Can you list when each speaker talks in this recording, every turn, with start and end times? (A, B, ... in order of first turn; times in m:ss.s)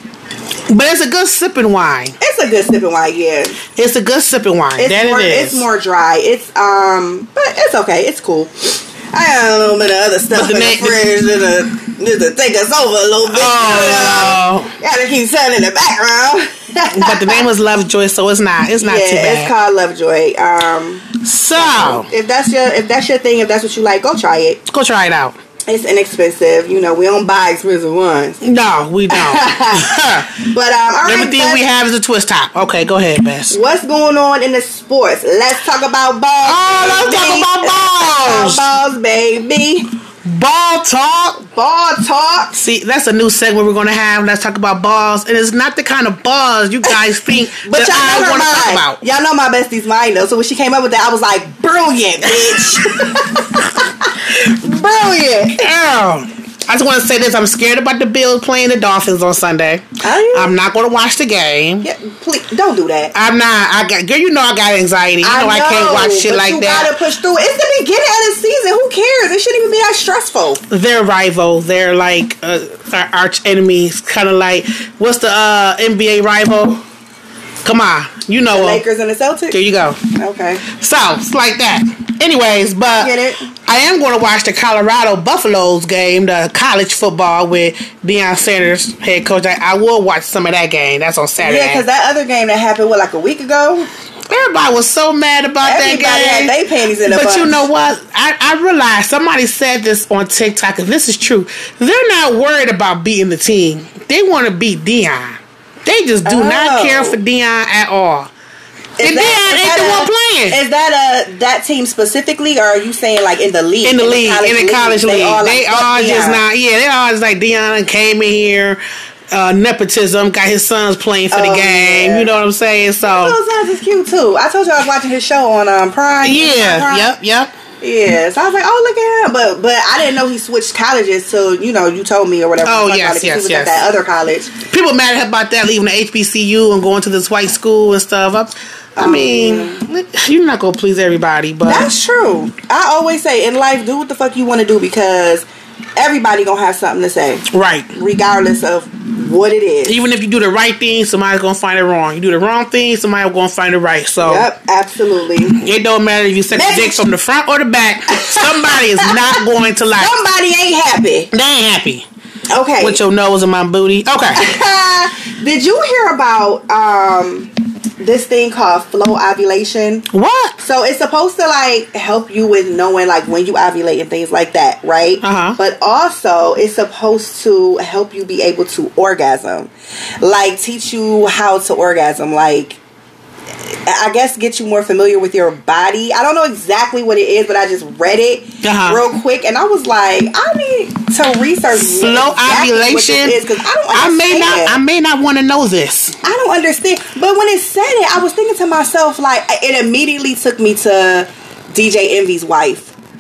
0:00.7-0:02.2 A
0:02.2-0:03.6 B
0:03.8-0:05.7 A
0:04.8-0:17.4 B
0:10.3-0:11.0 A
0:13.3-0:14.7 A
0:16.9-0:19.5 A
0:18.8-0:24.6 B
0:21.2-0:22.1 A
0:24.7-0:25.4 A
0:25.7-0:28.4 B
0:28.4-0:30.4 A
0:29.1-0:31.6 B
0:31.0-0:33.6 A
0:33.5-0:39.9 B
0:36.4-0:38.7 A
0:40.2-0:41.4 A
0:41.4-0:42.6 B
0:42.5-0:49.0 A
0:47.6-0:55.7 B
0:52.4-0:52.8 A
0:55.6-1:01.9 A
1:00.0-1:00.6 B
1:01.8-1:03.1 B
1:03.1-1:06.9 A
1:05.2-1:10.6 B
1:10.7-1:16.8 A
1:17.6-1:18.8 A
1:18.5-1:19.6 B
1:19.5-1:20.0 A
1:20.2-1:20.7 B
1:20.7-1:23.1 A
1:22.9-1:23.5 B
1:23.6-1:31.8 A
1:31.4-1:33.9 B
1:34.3-1:48.3 A
1:35.6-1:37.7 B
1:46.2-1:47.2 B
1:49.0-1:56.4 B
1:49.0-1:50.6 A
1:53.8-1:58.8 A
1:59.3-2:03.4 A
2:01.3-2:02.3 B
2:03.0-2:07.1 B
2:06.2-2:07.5 A
2:07.8-2:14.6 B
2:12.6-2:13.8 A
2:14.7-2:21.9 A
2:19.0-2:19.8 B
2:21.7-2:25.5 B
2:26.0-2:30.0 B
2:27.5-2:27.9 A
2:29.9-2:34.5 A
2:34.2-2:35.6 B
2:35.5-2:40.1 A
2:36.5-2:37.0 B
2:38.1-2:39.4 B
2:40.0-2:41.3 B
2:41.3-2:42.1 A
2:42.5-2:43.0 B
2:42.8-2:44.4 A
2:44.3-2:50.0 B
2:50.1-2:50.6 A
2:50.6-2:59.7 B
2:55.2-2:55.6 A
3:00.2-3:02.8 B
3:03.7-3:14.8 B
3:08.6-3:09.0 A
3:11.7-3:13.4 A
3:13.9-3:16.2 A
3:16.2-3:22.9 B